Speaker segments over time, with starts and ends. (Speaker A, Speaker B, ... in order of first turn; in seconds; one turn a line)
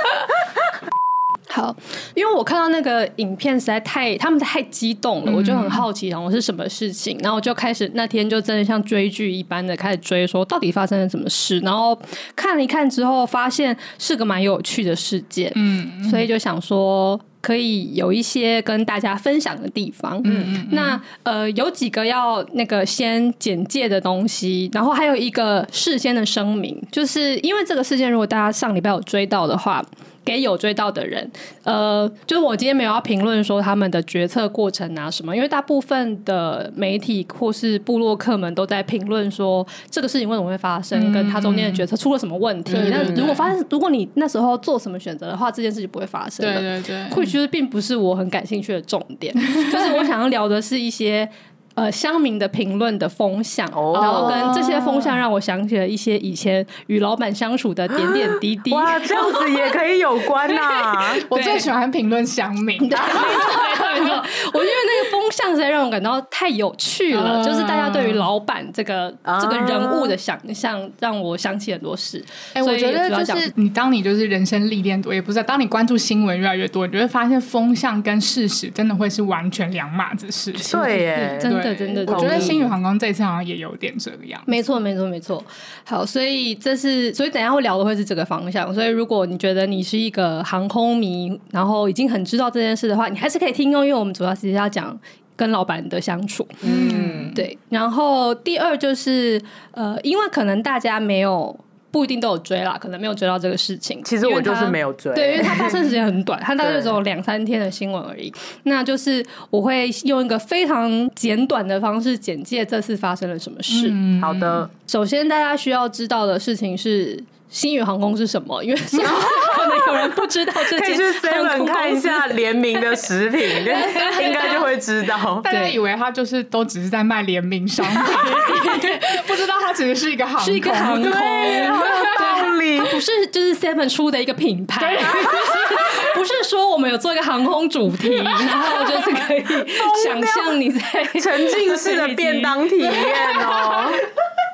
Speaker A: 1.5-59.7
Speaker B: 5.2-5.8
Speaker B: 15.5-16.3
Speaker B: 20.2-21.0
Speaker C: 20.2-20.5
Speaker B: 40.9-41.9
Speaker C: 42.7-43.4
Speaker B: 42.7-43.5
Speaker B: 46.4-47.3
Speaker C: 53.7-54.5
Speaker B: 53.9-55.2
Speaker C: 58.0-61.2
Speaker B: 61.3-64.1
Speaker A: 61.3-61.7
Speaker A: 62.8-73.5
Speaker C: 63.0-63.3
Speaker B: 67.1-68.2
Speaker C: 69.2-70.2
Speaker B: 72.5-80.9
Speaker C: 80.6-82.7
Speaker A: 80.7-82.6
Speaker B: 81.4-84.6
Speaker A: 84.5-114.0
Speaker C: 96.6-97.4
Speaker B: 96.6-97.4
Speaker C: 104.0-105.9
Speaker C: 106.6-107.0
Speaker B: 113.7-114.7
Speaker C: 114.2-114.7
Speaker A: 114.8-122.4
Speaker C: 119.0-125.5
Speaker A: 123.5-124.7
Speaker B: 124.0-124.7
Speaker B: 125.4-132.3
Speaker A: 125.5-125.8
Speaker A: 128.0-129.2
Speaker A: 130.4-144.0
Speaker C: 131.1-133.0
Speaker B: 134.8-135.8
Speaker C: 135.2-135.5
Speaker C: 139.7-140.6
Speaker C: 141.2-144.0
Speaker B: 141.8-142.3